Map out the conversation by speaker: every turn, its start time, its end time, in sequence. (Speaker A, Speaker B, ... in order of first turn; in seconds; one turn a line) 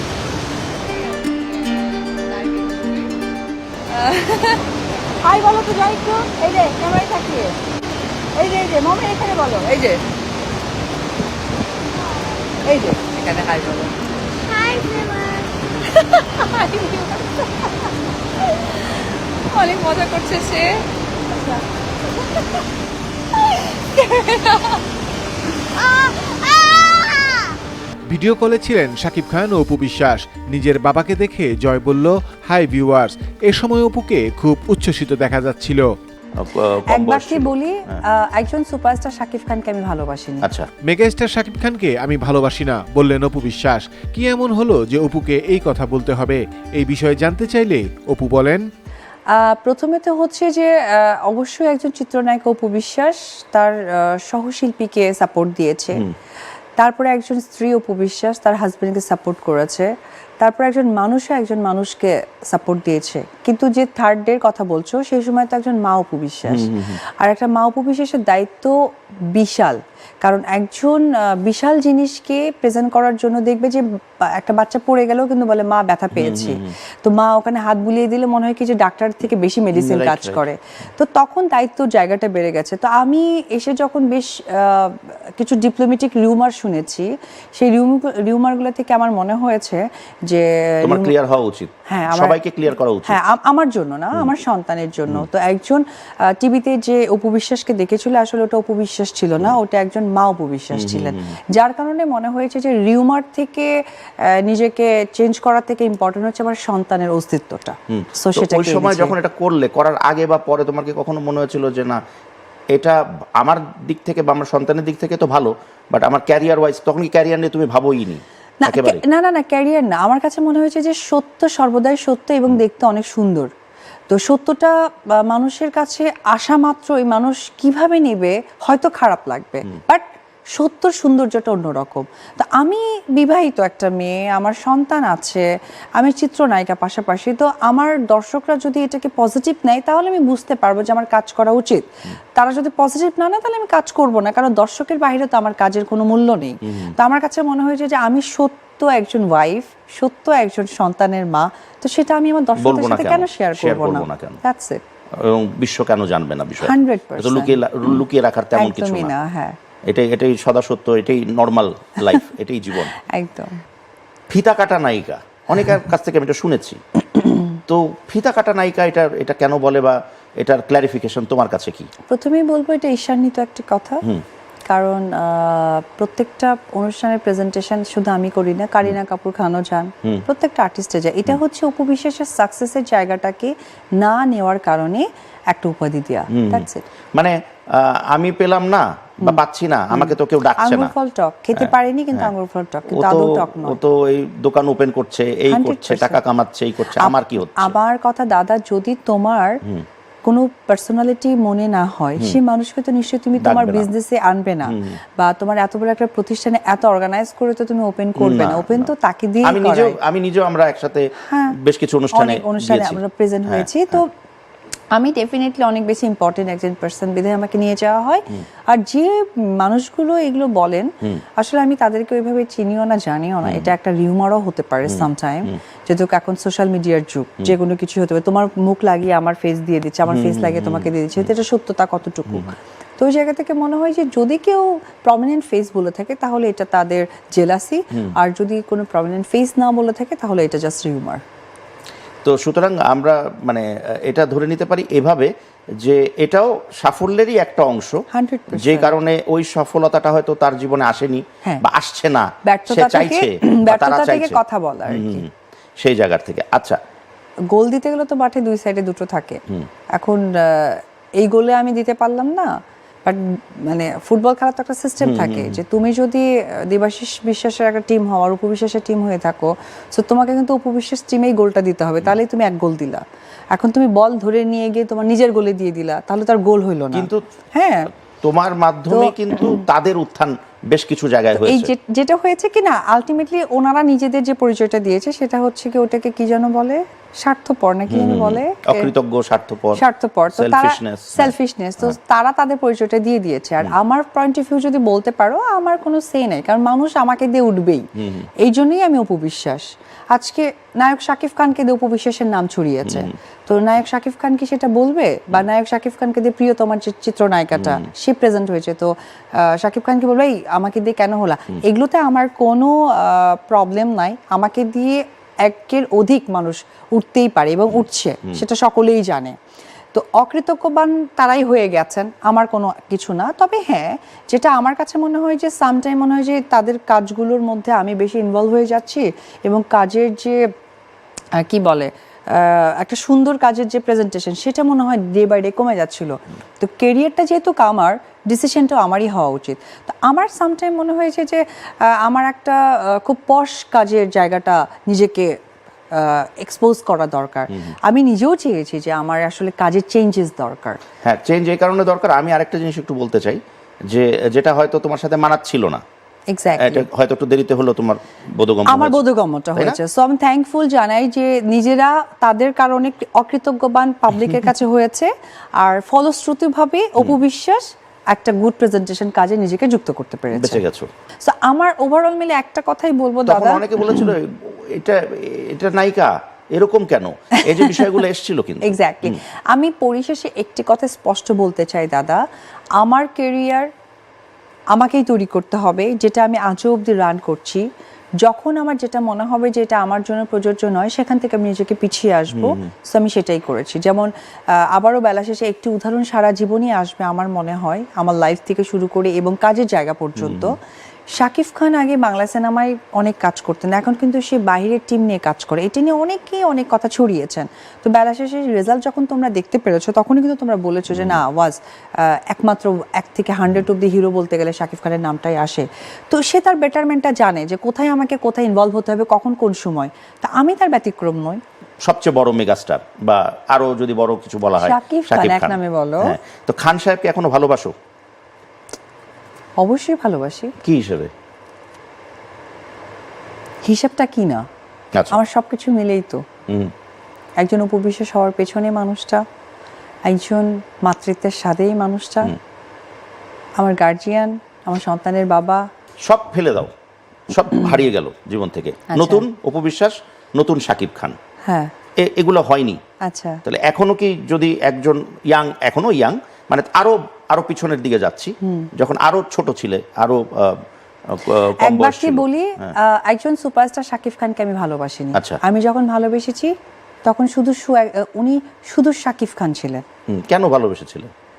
Speaker A: 1.1-3.1
Speaker A: 3.9-7.6
Speaker A: 8.3-10.0
Speaker A: 12.5-21.6
Speaker A: 22.2-22.6
Speaker A: 23.4-24.8
Speaker A: 25.7-27.5
Speaker B: 28.1-35.9
Speaker C: 36.4-38.0
Speaker A: 36.9-40.5
Speaker C: 40.4-40.7
Speaker B: 40.8-48.7
Speaker A: 49.3-56.0
Speaker A: 56.8-68.8
Speaker C: 66.5-67.0
Speaker A: 69.3-91.1
Speaker C: 76.1-76.8
Speaker C: 79.7-80.4
Speaker C: 90.8-93.2
Speaker A: 91.9-92.4
Speaker A: 93.1-109.2
Speaker C: 100.7-101.4
Speaker C: 107.9-112.0
Speaker C: 112.7-119.0
Speaker A: 118.6-123.5
Speaker A: 124.1-154.8
Speaker C: 146.6-146.9
Speaker C: 152.6-154.4
Speaker C: 155.2-159.1
Speaker A: 156.6-158.0
Speaker A: 158.5-159.6
Speaker C: 159.9-162.9
Speaker A: 163.0-163.6
Speaker C: 164.3-166.8
Speaker C: 167.7-171.9
Speaker A: 172.1-174.0
Speaker A: 174.7-186.8
Speaker C: 186.3-190.9
Speaker A: 189.9-193.8
Speaker C: 191.6-192.3
Speaker C: 192.9-197.8
Speaker A: 195.5-196.2
Speaker A: 196.9-199.6
Speaker A: 200.2-210.0
Speaker C: 203.4-203.9
Speaker C: 204.7-205.0
Speaker C: 208.2-208.9
Speaker C: 209.4-214.0
Speaker A: 211.2-211.6
Speaker A: 212.1-214.1
Speaker A: 214.9-241.2
Speaker C: 223.4-223.7
Speaker C: 224.9-225.6
Speaker C: 230.1-231.3
Speaker C: 242.2-248.0
Speaker A: 248.1-249.0
Speaker C: 248.5-255.3
Speaker A: 252.4-255.2
Speaker C: 255.8-256.8
Speaker A: 257.5-259.4
Speaker A: 259.9-262.5
Speaker A: 263.1-273.0
Speaker C: 265.0-265.6
Speaker A: 273.5-277.9
Speaker C: 276.9-277.2
Speaker C: 278.2-281.7
Speaker A: 278.9-279.6
Speaker A: 281.3-288.9
Speaker C: 287.9-292.0
Speaker A: 289.7-297.9
Speaker C: 298.0-298.3
Speaker A: 298.4-319.4
Speaker C: 302.8-303.1
Speaker C: 307.6-307.9
Speaker C: 317.7-318.4
Speaker A: 319.9-330.4
Speaker A: 331.4-345.4
Speaker A: 345.9-350.8
Speaker C: 351.0-355.8
Speaker A: 356.3-356.9
Speaker C: 356.6-359.0
Speaker A: 358.7-370.6
Speaker C: 370.3-370.9
Speaker A: 371.2-374.1
Speaker C: 373.3-379.2
Speaker A: 377.4-377.9
Speaker A: 378.6-382.2
Speaker A: 382.8-383.7
Speaker A: 384.7-387.7
Speaker A: 388.2-400.6
Speaker C: 392.3-392.7
Speaker C: 400.2-400.5
Speaker A: 401.1-421.4
Speaker C: 410.9-411.2
Speaker C: 421.8-427.7
Speaker A: 424.6-426.1
Speaker A: 429.6-430.5
Speaker C: 430.6-431.1
Speaker A: 433.6-434.4
Speaker A: 435.1-436.2
Speaker A: 437.4-439.2
Speaker A: 440.1-442.4
Speaker A: 443.6-445.6
Speaker C: 446.1-446.7
Speaker C: 447.3-451.2
Speaker A: 448.9-449.3
Speaker A: 451.4-451.7
Speaker C: 452.0-452.8
Speaker A: 453.0-453.4
Speaker C: 453.4-462.8
Speaker A: 458.4-458.7
Speaker A: 461.6-466.5
Speaker C: 465.1-465.4
Speaker A: 467.1-469.8
Speaker C: 470.1-471.1